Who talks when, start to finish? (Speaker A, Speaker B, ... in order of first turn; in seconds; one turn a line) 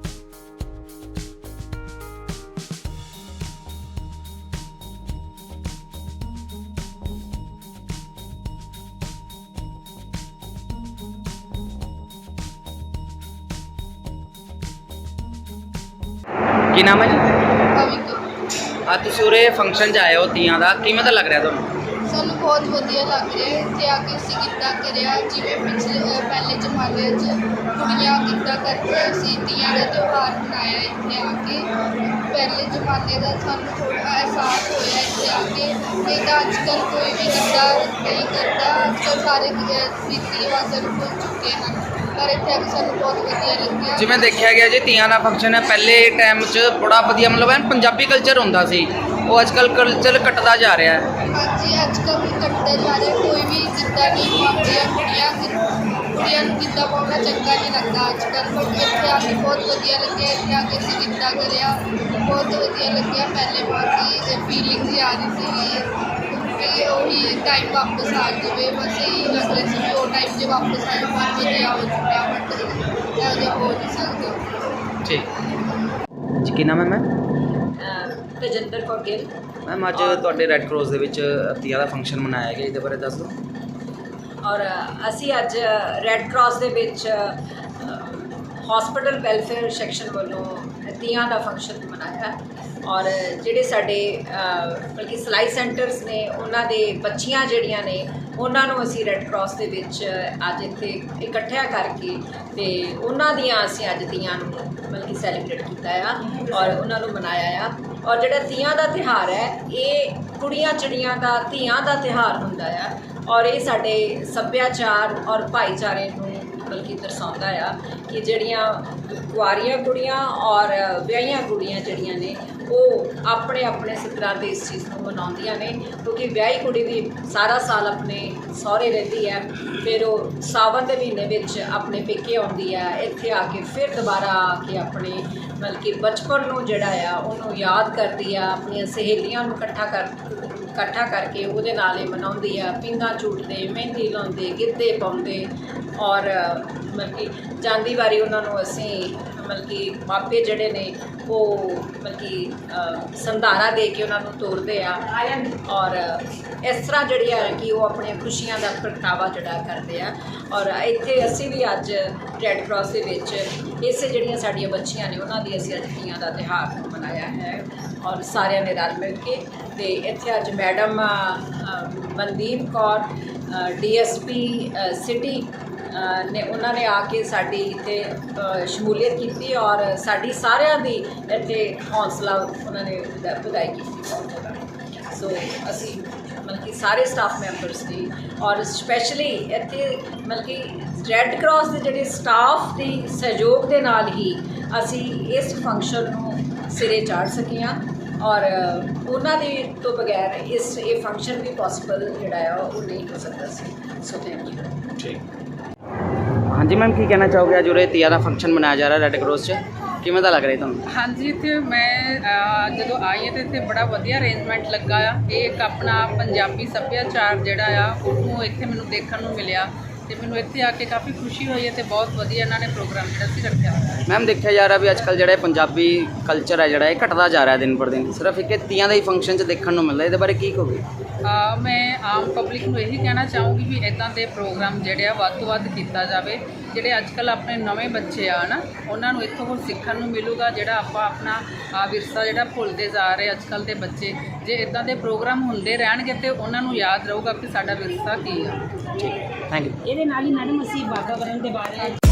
Speaker A: 16.7-17.2
Speaker B: 17.8-18.2
Speaker A: 18.9-21.6
Speaker B: 22.1-44.4
Speaker A: 44.0-51.1
Speaker B: 51.3-74.4
Speaker A: 76.4-77.1
Speaker C: 77.8-79.3
Speaker A: 79.7-83.4
Speaker C: 79.9-80.5
Speaker C: 84.4-204.7
Speaker A: 206.5-210.8
Speaker D: 210.9-224.0
Speaker A: 224.1-230.8
Speaker D: 231.2-248.6
Speaker A: 249.0-249.8
Speaker E: 249.8-251.9